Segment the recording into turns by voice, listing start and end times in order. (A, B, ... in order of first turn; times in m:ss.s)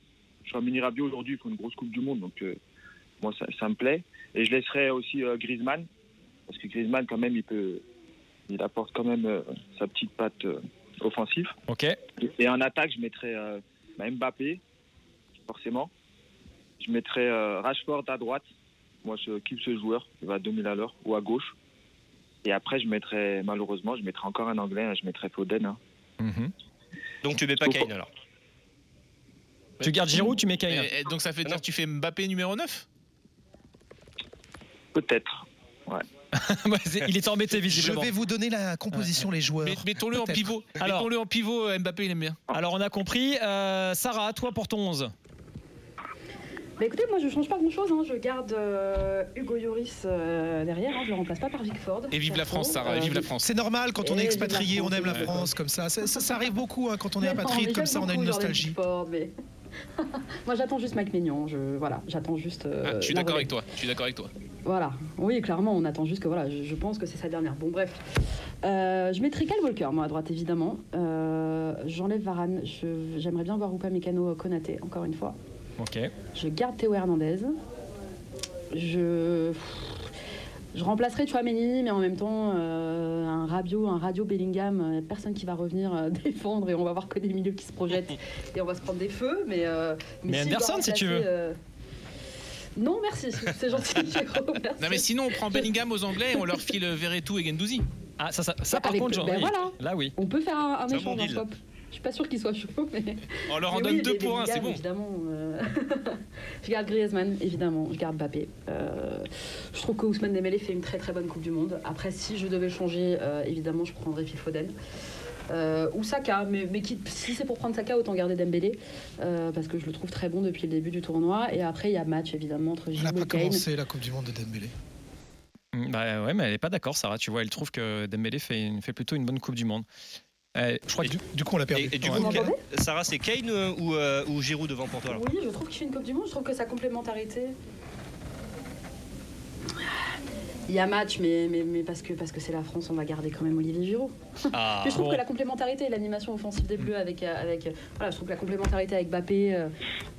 0:00.4-0:02.6 A
0:03.2-0:05.9 A
0:06.5-0:07.8 A
0:08.5-0:11.5 A
0:11.7-0:12.0 B
0:12.2-0:14.6 A
0:15.4-0:15.9 A
0:16.8-0:18.4 A
0:19.0-0:21.5 A
0:22.4-0:25.8 A
0:26.2-0:26.5 B
0:27.2-0:28.1 C
0:29.8-0:32.8 D
0:29.8-0:30.9 B
0:34.9-0:36.0 A
0:36.3-0:38.1 B
0:37.7-0:39.8 E
0:39.6-0:42.4 D
0:40.2-0:41.1 B
0:42.5-0:45.1 B
0:46.8-0:53.3 F
0:52.1-0:53.5 D
0:53.4-0:58.8 E
0:54.0-0:55.5 F
0:57.2-0:59.3 F
1:00.0-1:03.6 F
1:02.8-1:04.3 D
1:04.6-1:08.0 F
1:08.6-1:15.4 F
1:15.8-1:16.1 B
1:16.3-1:17.5 F
1:18.7-1:20.0 F
1:20.7-1:31.6 F
1:30.3-1:31.3 B
1:32.8-1:35.7 F
1:34.8-1:37.8 D
1:36.2-1:36.6 F
1:38.2-1:40.1 B
1:38.7-1:54.7 F
1:40.9-1:41.4 C
1:43.5-1:44.8 D
1:55.5-2:03.6 F
2:02.9-2:04.7 E
2:05.7-2:09.8 B
2:10.5-2:11.1 B
2:11.1-2:12.4 E
2:11.7-2:15.2 C
2:12.1-2:12.6 F
2:15.1-2:17.5 F
2:19.8-2:20.0 F
2:20.7-2:24.1 F
2:24.5-2:25.0 C
2:24.7-2:29.7 F
2:24.9-2:25.2 B